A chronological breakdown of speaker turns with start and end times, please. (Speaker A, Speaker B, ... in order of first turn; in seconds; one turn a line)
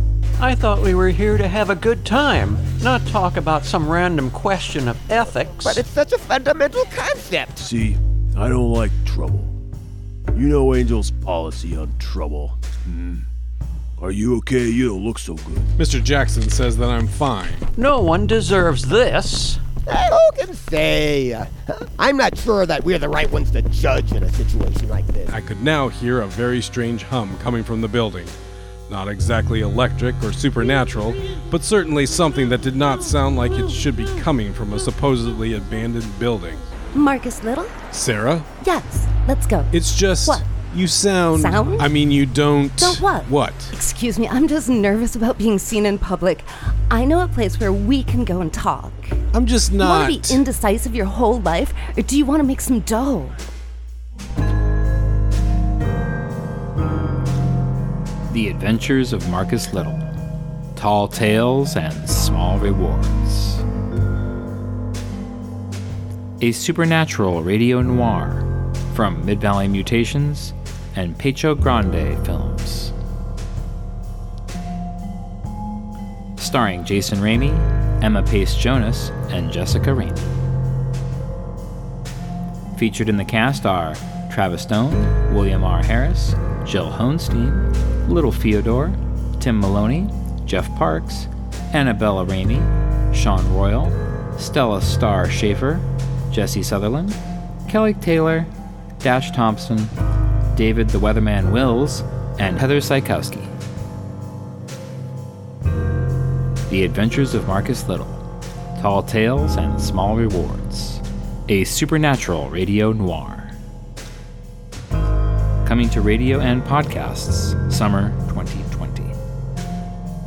Speaker A: 0.4-5.8
Speaker B: 5.6-7.7
Speaker C: 7.6-9.5
Speaker C: 10.3-13.3
Speaker C: 14.0-15.7
Speaker D: 15.8-17.6
Speaker A: 17.8-19.6
Speaker B: 19.9-25.3
Speaker D: 25.3-28.3
Speaker D: 28.9-36.6
Speaker E: 36.9-37.7
Speaker D: 37.9-38.5
Speaker E: 38.6-40.5
Speaker D: 39.7-43.7
Speaker E: 41.3-41.9
Speaker E: 42.8-49.2
Speaker D: 49.3-50.4
Speaker E: 49.8-53.4
Speaker F: 58.3-60.1
Speaker F: 60.8-63.7
Speaker F: 66.4-73.0
Speaker F: 76.4-80.3
Speaker F: 82.8-98.5
Speaker F: 99.0-99.9
Speaker F: 100.5-103.5
Speaker F: 106.7-108.2
Speaker F: 108.8-113.6
Speaker F: 115.6-119.2